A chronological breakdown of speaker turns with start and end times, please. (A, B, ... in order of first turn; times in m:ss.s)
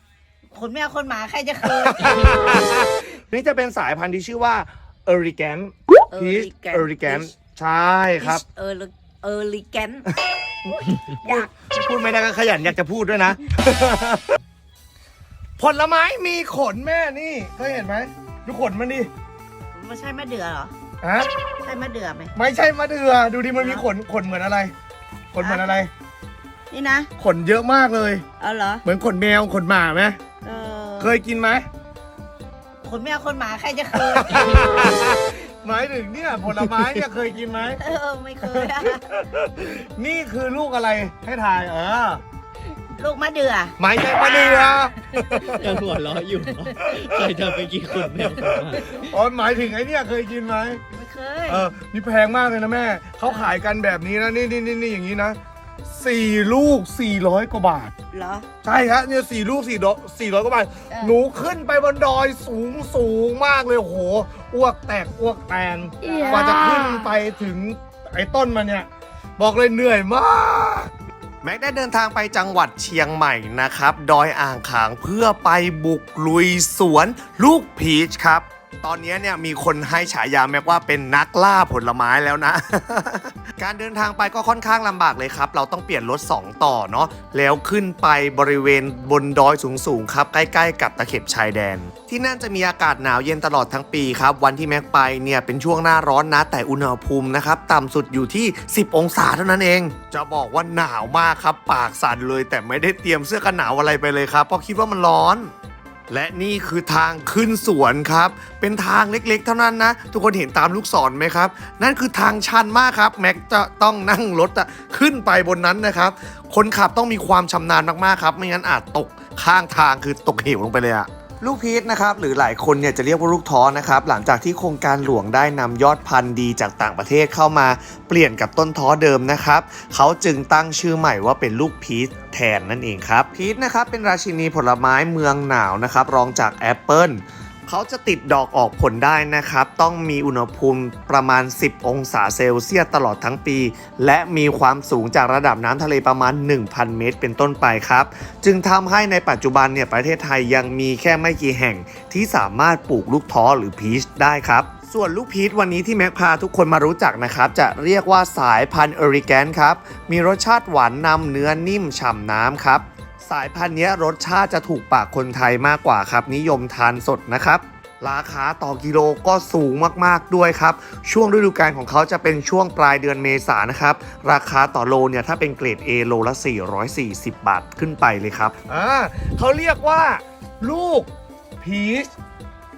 0:00.5-0:02.9 A
0:01.6-0:08.4 B
0:06.1-0:07.3 A
0:08.2-0:10.0 A
0:10.6-0:14.4 B
0:10.9-0:11.5 A
0:15.6-0:19.1 B
0:19.7-0:20.7 A
0:21.0-0:21.3 B
0:21.6-0:22.3 A
0:22.3-0:24.7 B
0:23.5-0:23.8 A
0:25.3-0:25.9 B
0:25.4-0:25.7 A
0:26.7-0:27.1 A
0:27.2-0:28.2 B
0:28.4-0:28.8 A
0:28.8-0:30.2 B
0:30.4-0:31.1 A
0:31.0-0:31.7 B
0:32.8-0:35.2 A
0:34.0-0:37.8 B
0:37.8-0:39.0 A
0:38.4-0:42.2 B
0:43.0-0:44.9 A
0:43.8-0:45.7 B
0:45.4-0:49.0 C
0:45.4-0:45.7 A
0:46.5-0:46.8 A
0:46.8-0:50.8 B
0:50.9-0:51.7 A
0:51.5-0:57.9 B
0:53.2-0:53.5 A
0:58.1-0:58.5 A
0:58.6-1:10.9 B
1:00.9-1:01.2 A
1:06.0-1:06.6 A
1:11.4-1:45.5 B
1:46.1-3:01.1 B
3:01.6-3:02.1 B